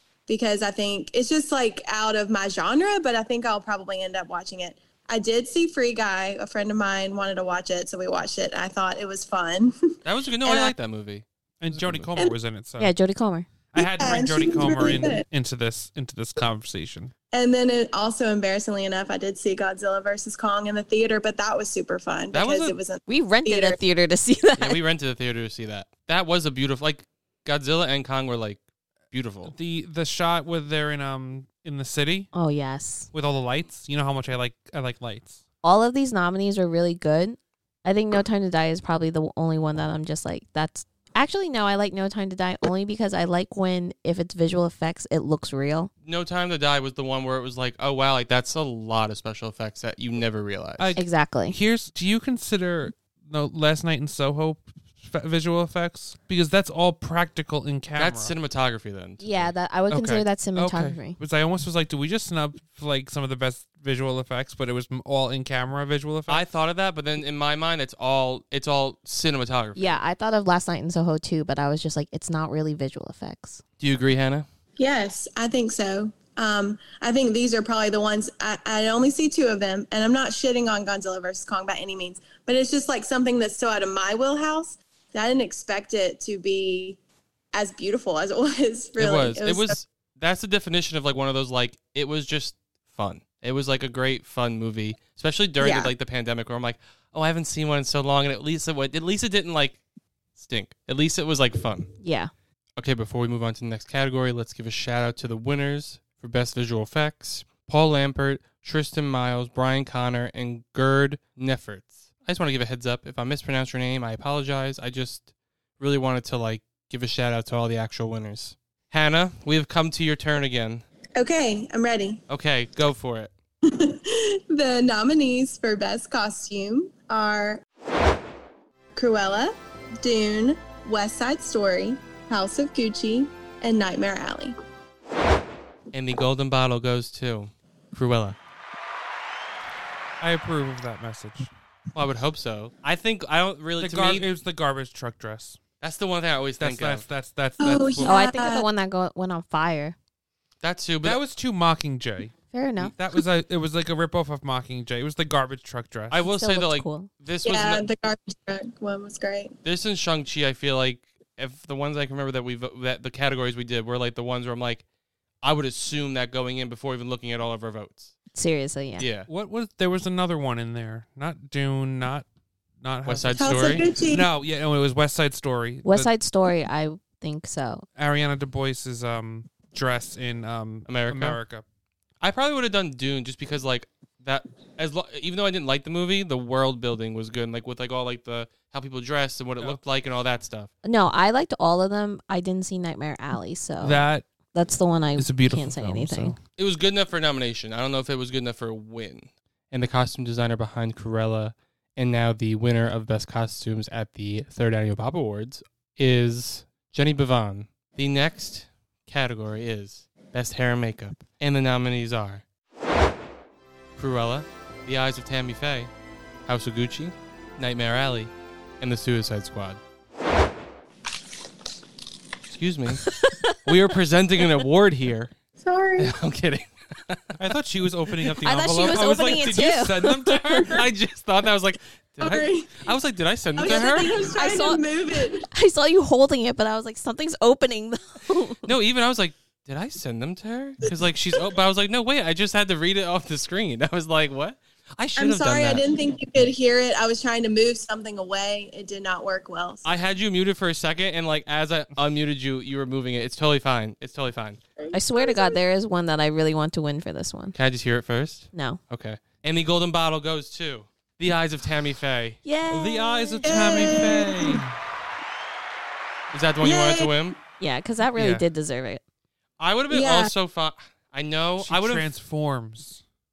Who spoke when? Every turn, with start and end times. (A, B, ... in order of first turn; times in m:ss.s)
0:00.3-0:09.7 A
0:10.0-0:12.1 B
0:10.4-0:10.7 A
0:11.6-0:12.9 C
0:12.8-0:13.5 D
0:13.7-0:17.1 C
0:13.8-0:15.2 A
0:17.3-0:23.8 A
0:22.3-0:22.7 B
0:23.1-0:24.8 D
0:24.6-0:29.5 B
0:29.4-0:32.3 C
0:32.3-0:33.1 D
0:33.1-0:35.4 C
0:35.6-0:45.9 D
0:46.0-0:51.0 B
0:50.8-0:58.3 C
0:51.0-0:51.6 D
0:58.0-0:59.5 B
0:59.2-1:01.2 D
0:59.9-1:06.4 C
1:06.3-1:10.0 B
1:09.8-1:13.6 D
1:13.8-1:14.4 B
1:14.8-1:27.0 A
1:27.5-1:29.8 A
1:29.0-1:39.8 B
1:35.6-1:35.9 A
1:40.4-1:41.9 B
1:42.0-1:42.3 D
1:42.8-1:55.3 B
1:55.8-2:00.8 B
2:01.2-2:02.2 A
2:02.3-2:03.3 B
2:03.7-2:07.6 A
2:09.0-2:14.6 A
2:15.9-2:18.4 B
2:20.2-2:21.5 C
2:21.9-2:24.3 B
2:23.8-2:25.6 C
2:25.8-2:27.0 B
2:26.6-2:28.2 C
2:27.6-2:28.6 A
2:28.0-2:30.0 D
2:30.6-2:31.2 B
2:31.0-2:32.3 C
2:32.5-2:32.9 D
2:32.9-2:36.2 C
2:36.1-2:37.8 B
2:36.3-2:37.1 D
2:37.4-2:39.5 A
2:39.6-2:44.8 B
2:45.4-2:48.1 B
2:48.3-2:49.0 D
2:49.0-2:49.3 B
2:49.3-2:52.2 C
2:52.8-2:56.1 C
2:53.0-2:53.8 B
2:53.4-2:54.3 A
2:55.8-2:57.8 D
2:57.9-3:01.6 C
3:00.9-3:01.4 B
3:02.2-3:10.7 B
3:10.8-3:16.3 D
3:13.8-3:14.3 C
3:15.2-3:16.4 C
3:16.6-3:32.4 B
3:34.0-3:35.9 B
3:36.4-3:39.8 B
3:42.5-3:43.0 B
3:43.1-3:43.6 D
3:43.6-3:45.3 B
3:45.6-3:46.1 A
3:46.0-3:47.3 B
3:47.4-3:50.8 C
3:48.4-3:50.7 D
3:50.7-3:54.3 B
3:52.2-3:52.8 A
3:53.6-3:55.4 A
3:53.7-3:54.8 D
3:55.4-3:58.6 D
3:58.6-4:05.8 B
4:05.2-4:09.8 A
4:09.8-4:14.6 B
4:14.8-4:15.6 A
4:14.9-4:17.5 D
4:17.5-4:22.4 B
4:18.5-4:18.8 D
4:22.4-4:24.0 D
4:22.7-4:24.7 C
4:23.4-4:24.6 A
4:26.3-4:27.4 B
4:26.6-4:27.2 A
4:27.6-4:29.0 D
4:28.2-4:28.4 C
4:29.6-4:32.1 B
4:29.9-4:30.3 A
4:31.6-4:33.0 C